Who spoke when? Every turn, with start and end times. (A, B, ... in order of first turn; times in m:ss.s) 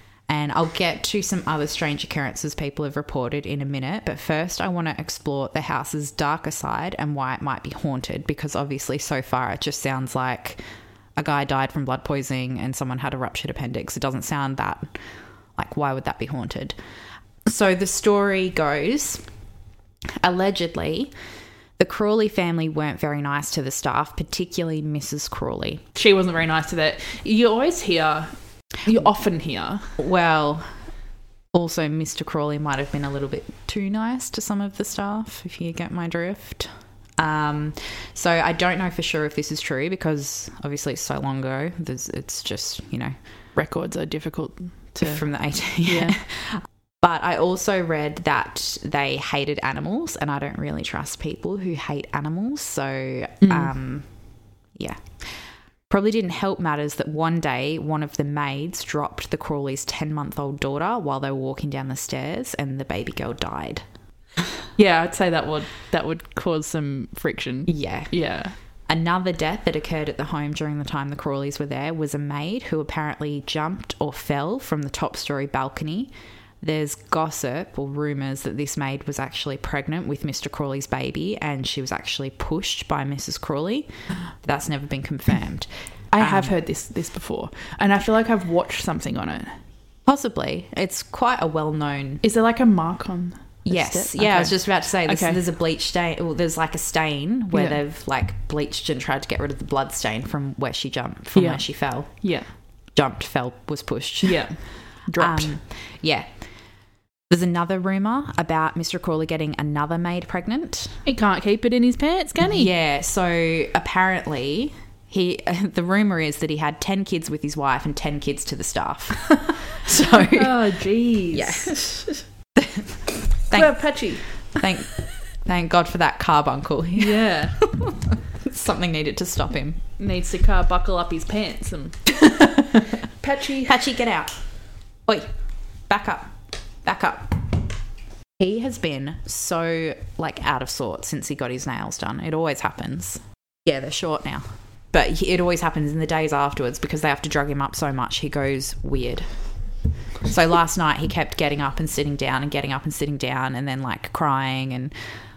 0:00.3-0:10.6 A
0:11.2-0:14.9 A
0:15.6-0:16.8 A
0:17.4-0:19.2 A
0:20.2-0:21.1 A
0:21.8-0:25.8 A
0:25.9-0:29.9 B
0:30.0-0:30.7 A
0:31.5-0:43.2 A
0:43.5-0:45.2 B
0:45.0-0:54.1 A
0:45.8-0:46.2 B
0:53.4-0:53.7 B
0:54.7-1:03.8 A
1:04.8-1:08.5 B
1:07.7-1:08.1 A
1:08.9-1:23.9 A
1:24.4-1:26.5 A
1:26.1-1:29.6 B
1:30.0-1:32.2 A
1:32.2-1:35.4 B
1:33.6-1:42.2 A
1:37.5-1:37.8 B
1:41.3-1:42.5 B
1:42.9-1:44.6 A
1:44.2-1:45.6 B
1:45.2-1:46.3 A
1:47.3-1:51.0 A
1:51.0-1:52.7 B
1:52.4-2:00.7 A
2:00.1-2:02.1 B
2:01.3-2:03.8 A
2:03.5-2:04.3 B
2:04.4-2:09.8 A
2:07.0-2:07.6 B
2:10.0-2:12.0 B
2:12.2-2:12.9 A
2:13.2-2:13.9 B
2:13.6-2:14.4 A
2:15.1-2:15.3 A
2:15.9-2:17.4 A
2:18.4-2:29.3 A
2:30.3-2:34.9 A